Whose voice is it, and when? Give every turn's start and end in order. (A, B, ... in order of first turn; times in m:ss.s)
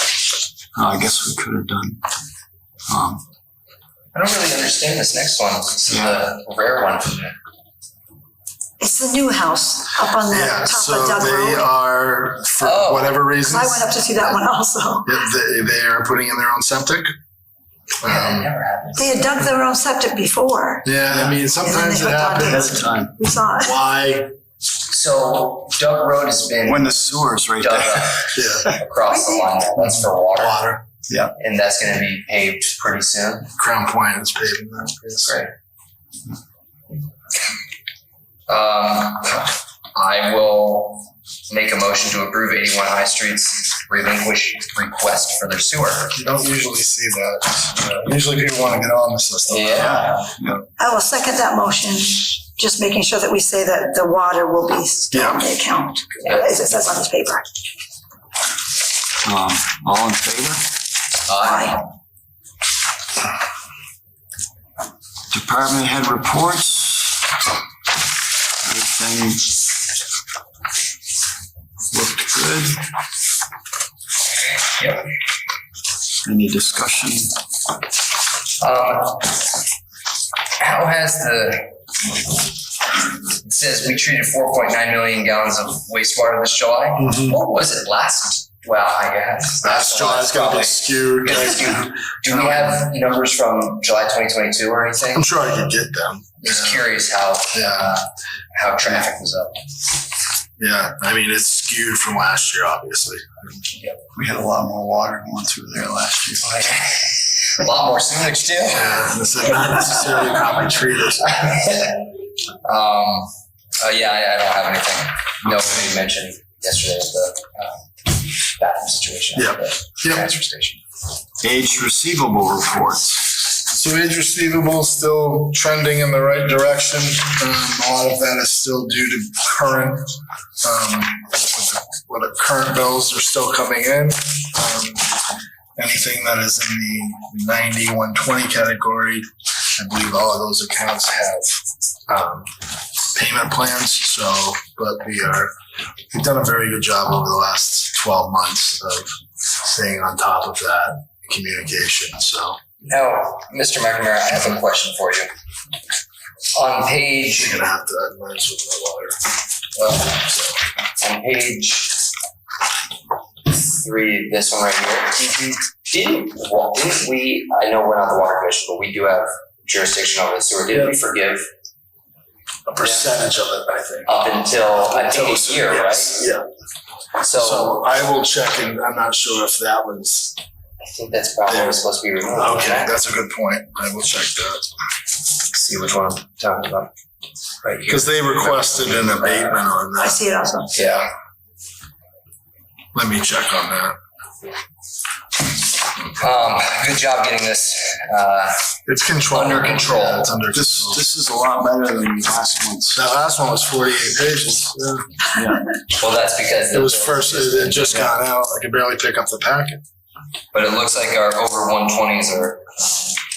0:00.8-0:02.0 A
0:02.9-0:03.2 A
0:04.1-0:07.3 B
0:05.9-0:06.2 A
0:08.8-0:11.7 C
0:10.2-0:14.4 D
0:12.6-0:13.2 B
0:13.4-0:15.2 C
0:15.0-0:17.1 D
0:18.0-0:18.5 D
0:18.0-0:19.4 B
0:19.0-0:20.9 C
0:20.8-0:22.8 D
0:21.1-0:21.4 A
0:21.6-0:23.8 C
0:22.4-0:23.1 A
0:23.5-0:24.3 D
0:24.9-0:26.9 B
0:26.6-0:28.1 A
0:27.6-0:30.7 B
0:28.4-0:28.8 D
0:29.1-0:29.4 C
0:30.3-0:30.8 D
0:31.4-0:33.5 B
0:33.6-0:35.4 D
0:35.2-0:35.5 B
0:38.5-0:46.1 B
0:46.2-0:50.6 D
0:49.5-0:50.1 B
0:49.8-0:50.6 A
0:50.8-0:57.4 C
0:55.1-0:55.4 D
0:59.2-1:00.6 A
1:01.3-1:01.8 B
1:01.4-1:01.8 C
1:05.3-1:07.4 A
1:08.6-1:09.6 A
1:11.9-1:12.8 A
1:14.8-1:15.0 B
1:16.2-1:17.3 A
1:18.6-1:19.4 B
1:20.6-1:21.7 B
1:23.4-1:35.3 B
1:27.0-1:27.4 D
1:29.6-1:32.8 D
1:35.1-1:36.8 D
1:36.4-1:39.6 B
1:37.5-1:37.9 D
1:40.6-1:43.4 D
1:44.2-1:46.6 A
1:46.4-1:49.0 B
1:48.7-1:51.6 D
1:51.4-1:52.0 B
1:52.6-1:57.8 B
1:58.6-2:00.8 B
1:59.4-2:00.3 D
2:01.4-2:03.4 A
2:03.6-2:10.1 D
2:10.6-2:15.1 D
2:15.8-2:19.3 D
2:19.8-2:22.5 D
2:23.1-2:25.5 D
2:26.1-2:32.6 D
2:32.8-2:35.3 B
2:36.5-2:37.6 B
2:37.4-2:39.2 D
2:39.8-2:40.2 B
2:40.1-2:40.5 D
2:41.0-2:42.0 B
2:43.5-2:45.3 B
2:45.2-2:45.5 D
2:45.9-2:51.5 B
2:52.7-2:54.1 D
2:52.8-2:53.1 B
2:54.1-2:56.3 B
2:54.7-2:56.4 D
2:57.2-2:57.8 B
2:57.4-3:00.4 D
3:00.8-3:02.9 B
3:01.5-3:01.8 D
3:02.3-3:04.6 D
3:05.5-3:06.9 B
3:07.6-3:09.6 B
3:07.9-3:10.3 D
3:10.0-3:10.7 C
3:10.7-3:11.1 B
3:12.9-3:14.0 D
3:16.2-3:18.6 B
3:18.9-3:21.0 D
3:19.3-3:20.3 B
3:20.5-3:23.0 A
3:22.9-3:25.0 D
3:25.3-3:25.6 A
3:25.9-3:28.1 B
3:26.7-3:29.8 D
3:30.5-3:33.2 B